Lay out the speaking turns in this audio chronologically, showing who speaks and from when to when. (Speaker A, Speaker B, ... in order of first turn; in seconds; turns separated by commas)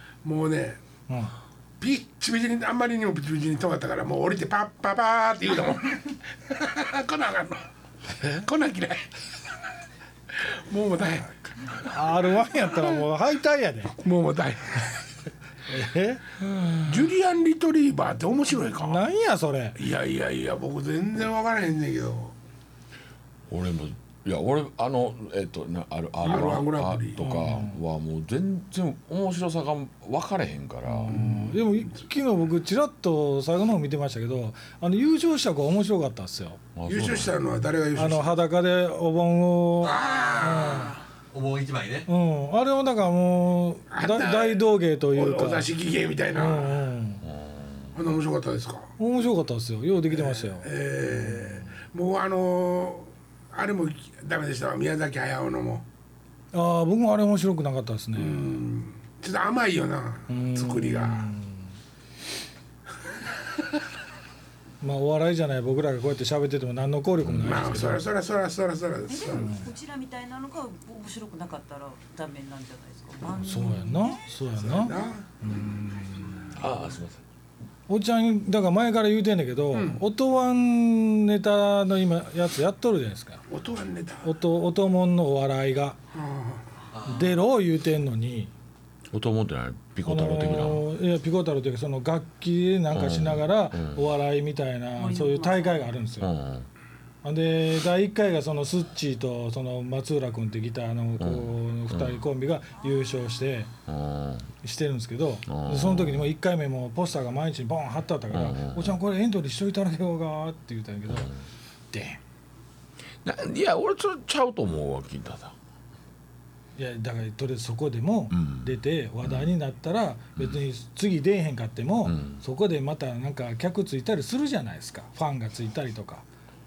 Speaker A: 0.2-0.8, Speaker A: 1.8-7.7, Speaker A: 8.2-9.1, Speaker A: 10.4-11.9, Speaker B: 11.8-14.0, Speaker A: 14.0-15.0, Speaker B: 15.7-16.9, Speaker A: 16.9-19.1, Speaker B: 18.8-19.8, Speaker A: 19.8-22.3, Speaker C: 23.5-31.2, Speaker A: 26.2-27.2, Speaker B: 27.2-27.8, Speaker B: 30.9-36.6, Speaker A: 31.1-32.0, Speaker C: 36.8-37.4, Speaker A: 36.9-38.4, Speaker B: 38.0-41.0, Speaker A: 39.8-41.0, Speaker D: 39.9-42.1, Speaker B: 42.1-45.7, Speaker A: 43.9-46.9, Speaker B: 46.4-47.2, Speaker C: 47.2-47.9, Speaker A: 47.9-48.9, Speaker B: 49.0-50.7, Speaker A: 50.1-55.9, Speaker B: 56.5-58.6, Speaker A: 58.2-61.3, Speaker B: 60.3-61.6, Speaker B: 64.8-68.0, Speaker C: 67.2-67.8, Speaker A: 67.4-69.5, Speaker E: 69.1-74.3, Speaker B: 69.4-69.7, Speaker B: 73.4-76.6, Speaker A: 74.5-75.8, Speaker C: 76.5-77.2, Speaker B: 77.9-83.4, Speaker A: 79.7-80.0, Speaker A: 83.5-84.3, Speaker B: 84.2-86.0, Speaker A: 86.1-86.6, Speaker D: 86.9-87.3, Speaker B: 87.1-88.5, Speaker C: 89.1-90.9, Speaker B: 90.1-96.3, Speaker C: 92.9-94.0, Speaker E: 95.0-95.9, Speaker C: 96.2-96.7, Speaker B: 97.2-103.7, Speaker C: 101.2-102.2, Speaker C: 103.9-104.5, Speaker B: 104.6-111.3, Speaker C: 105.5-106.3, Speaker C: 108.3-109.0, Speaker B: 111.9-112.2, Speaker C: 113.2-115.5, Speaker B: 116.8-126.2, Speaker C: 118.3-118.7, Speaker C: 119.2-119.5, Speaker C: 122.0-122.4